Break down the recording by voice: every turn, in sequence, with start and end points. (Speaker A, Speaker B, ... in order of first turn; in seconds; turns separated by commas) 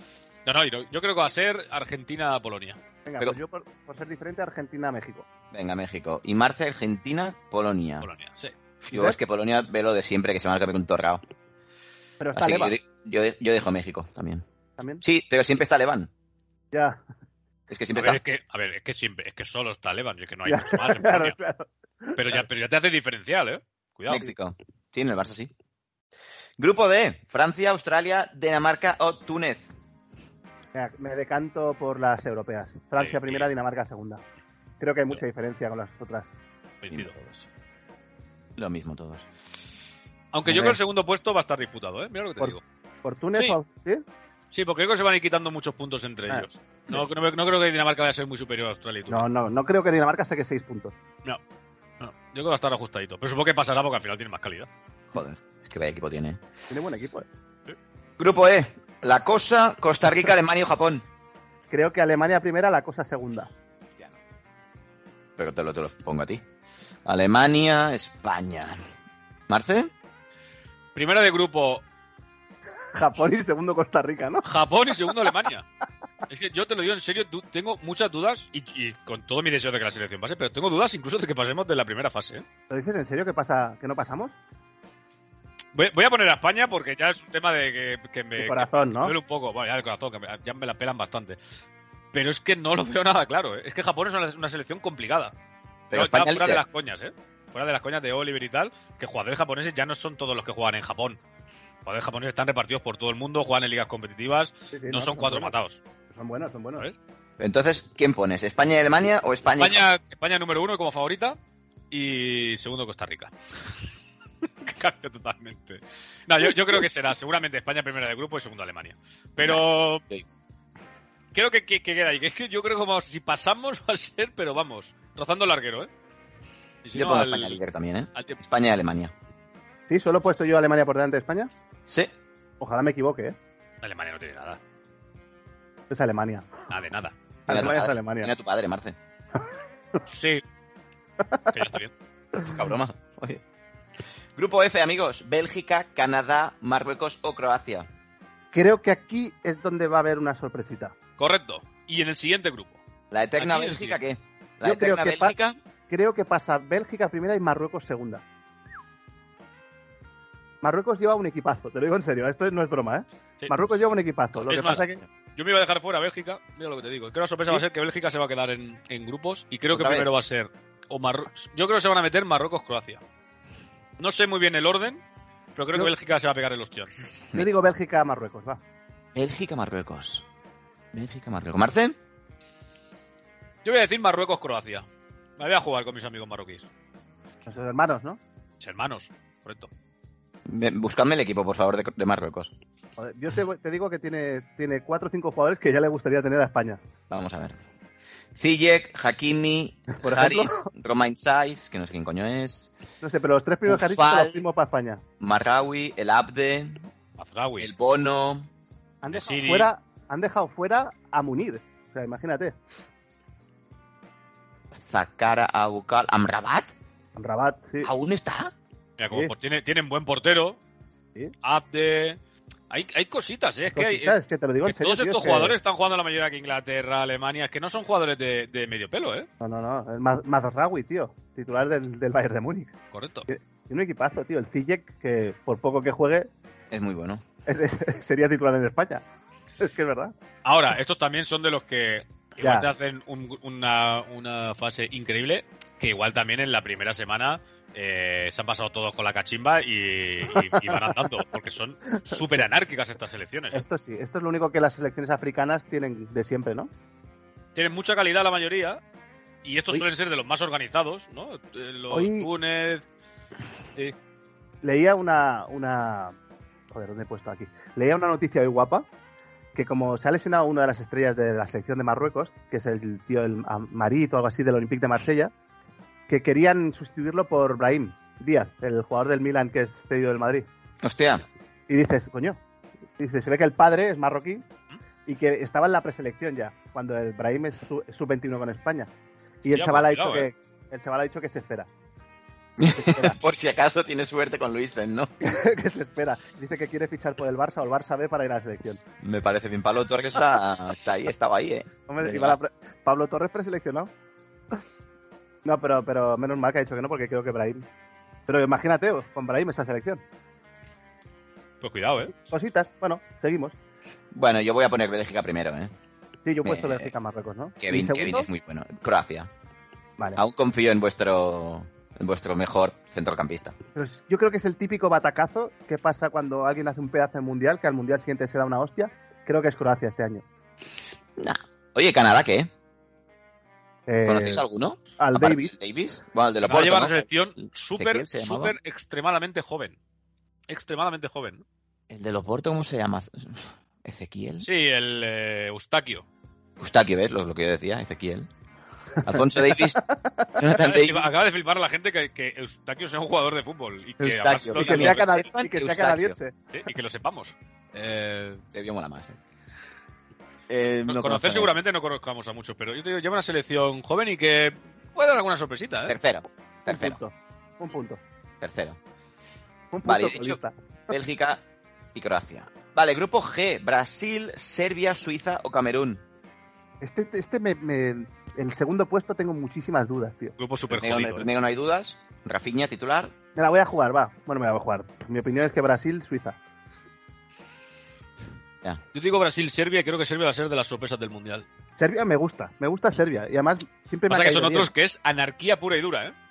Speaker A: 0.5-2.8, Speaker B: 3.0-5.2, Speaker C: 5.5-8.1, Speaker A: 8.0-8.5, Speaker C: 8.8-11.2, Speaker B: 8.9-9.2, Speaker B: 12.2-12.8, Speaker C: 12.3-14.4, Speaker C: 15.0-16.1, Speaker B: 16.7-17.0, Speaker C: 17.7-18.2, Speaker A: 17.9-21.4, Speaker B: 20.5-22.3, Speaker A: 22.1-24.3, Speaker C: 24.1-25.5, Speaker C: 26.6-29.7, Speaker B: 30.7-34.2, Speaker A: 33.0-33.5, Speaker B: 34.8-36.3, Speaker A: 36.8-37.1, Speaker C: 36.9-37.5, Speaker C: 38.6-39.3, Speaker A: 40.3-42.6, Speaker B: 40.5-40.8, Speaker B: 42.4-44.0, Speaker A: 44.5-49.2, Speaker B: 49.1-50.9, Speaker A: 52.0-54.7, Speaker C: 55.1-56.4, Speaker B: 56.7-57.2, Speaker C: 58.2-61.0, Speaker B: 61.7-63.5, Speaker C: 65.4-66.4, Speaker C: 67.0-68.8, Speaker C: 69.5-69.9, Speaker A: 70.9-71.8, Speaker B: 72.9-74.4, Speaker A: 74.4-75.6, Speaker A: 76.3-82.4, Speaker B: 82.7-84.3, Speaker A: 85.7-91.4, Speaker B: 88.4-89.1, Speaker A: 92.1-95.3, Speaker C: 95.9-96.6, Speaker A: 95.9-101.2, Speaker A: 101.8-105.8, Speaker B: 104.7-105.5, Speaker B: 106.1-106.8, Speaker C: 107.4-109.9, Speaker A: 109.5-111.4, Speaker A: 111.9-113.3, Speaker A: 114.6-120.0, Speaker C: 119.4-120.2, Speaker A: 121.3-125.9, Speaker A: 126.8-127.6, Speaker C: 126.9-129.1, Speaker B: 129.9-131.5, Speaker B: 132.6-133.3, Speaker A: 133.8-134.6, Speaker B: 135.9-136.5, Speaker A: 136.7-137.1, Speaker B: 137.5-138.3, Speaker C: 137.5-138.9, Speaker A: 140.1-140.4, Speaker B: 141.2-141.6, Speaker A: 141.5-141.9, Speaker C: 142.4-143.4, Speaker C: 144.3-147.9, Speaker B: 148.5-150.9, Speaker A: 151.2-152.8, Speaker C: 153.1-155.6, Speaker A: 153.4-154.0, Speaker B: 154.6-155.3, Speaker B: 155.9-158.2, Speaker B: 160.6-165.0, Speaker A: 163.4-163.8, Speaker A: 164.4-164.8, Speaker A: 165.3-173.0, Speaker C: 169.7-170.1, Speaker A: 174.0-175.0, Speaker A: 175.6-176.9, Speaker B: 177.3-178.6, Speaker C: 179.1-180.2, Speaker C: 180.9-181.9, Speaker A: 183.6-184.8, Speaker A: 185.4-186.7, Speaker B: 187.4-188.2, Speaker A: 188.6-189.7, Speaker C: 190.5-192.5, Speaker B: 193.0-196.8, Speaker C: 197.1-197.6, Speaker C: 198.3-202.7, Speaker B: 199.9-200.7, Speaker B: 203.0-205.0, Speaker C: 203.7-204.4, Speaker C: 205.2-206.9, Speaker A: 207.2-207.7, Speaker C: 207.6-208.5, Speaker B: 209.0-212.5, Speaker A: 209.1-209.7, Speaker C: 214.7-216.7, Speaker B: 217.2-217.9, Speaker C: 217.8-218.5, Speaker A: 219.0-220.6, Speaker A: 221.4-222.2, Speaker A: 222.7-229.3, Speaker B: 223.7-225.5, Speaker B: 229.4-232.7, Speaker A: 232.9-233.3, Speaker B: 233.3-236.3, Speaker C: 236.7-237.2, Speaker B: 237.5-239.0, Speaker B: 239.6-240.1, Speaker A: 240.4-253.6, Speaker B: 242.4-242.7, Speaker B: 250.3-250.9, Speaker B: 251.9-252.4, Speaker B: 253.5-256.7, Speaker A: 257.5-258.8, Speaker A: 259.4-262.8, Speaker B: 261.9-262.3, Speaker B: 264.6-266.1, Speaker B: 266.7-268.9, Speaker B: 269.5-275.3, Speaker B: 276.1-280.5, Speaker C: 280.8-281.2, Speaker B: 281.7-282.4, Speaker B: 283.0-284.4, Speaker B: 285.1-288.9, Speaker B: 289.4-291.7, Speaker A: 289.5-290.3, Speaker C: 292.6-295.1, Speaker B: 292.8-293.1, Speaker B: 295.2-298.8, Speaker C: 299.0-302.4, Speaker B: 301.9-303.9, Speaker B: 305.4-307.6, Speaker B: 308.3-310.0, Speaker A: 311.6-312.1, Speaker B: 312.0-313.5, Speaker C: 314.1-315.7, Speaker B: 316.2-318.3, Speaker C: 316.4-316.9, Speaker C: 317.6-319.3, Speaker C: 320.1-323.6, Speaker B: 323.7-330.2, Speaker C: 331.2-332.5, Speaker B: 333.9-334.4, Speaker C: 334.0-337.1, Speaker B: 335.0-335.5, Speaker A: 336.4-339.8, Speaker C: 337.8-338.5, Speaker A: 340.5-341.4, Speaker C: 341.9-344.5, Speaker A: 344.4-346.0, Speaker C: 346.6-348.3, Speaker C: 349.0-349.8, Speaker B: 349.0-350.4, Speaker C: 350.4-351.1, Speaker A: 350.5-355.1, Speaker C: 354.0-356.1, Speaker B: 354.5-356.3, Speaker A: 356.5-358.4, Speaker C: 358.5-359.2, Speaker C: 360.5-361.5, Speaker A: 360.9-365.9, Speaker C: 365.9-367.0, Speaker B: 366.7-368.0, Speaker C: 368.4-368.8, Speaker B: 369.7-370.5, Speaker C: 369.8-370.4, Speaker C: 370.9-371.4, Speaker C: 371.9-376.0, Speaker B: 376.8-380.4, Speaker A: 380.4-381.3, Speaker C: 380.7-383.1, Speaker B: 383.3-386.4, Speaker A: 388.9-391.4, Speaker B: 391.8-394.7, Speaker A: 394.1-396.1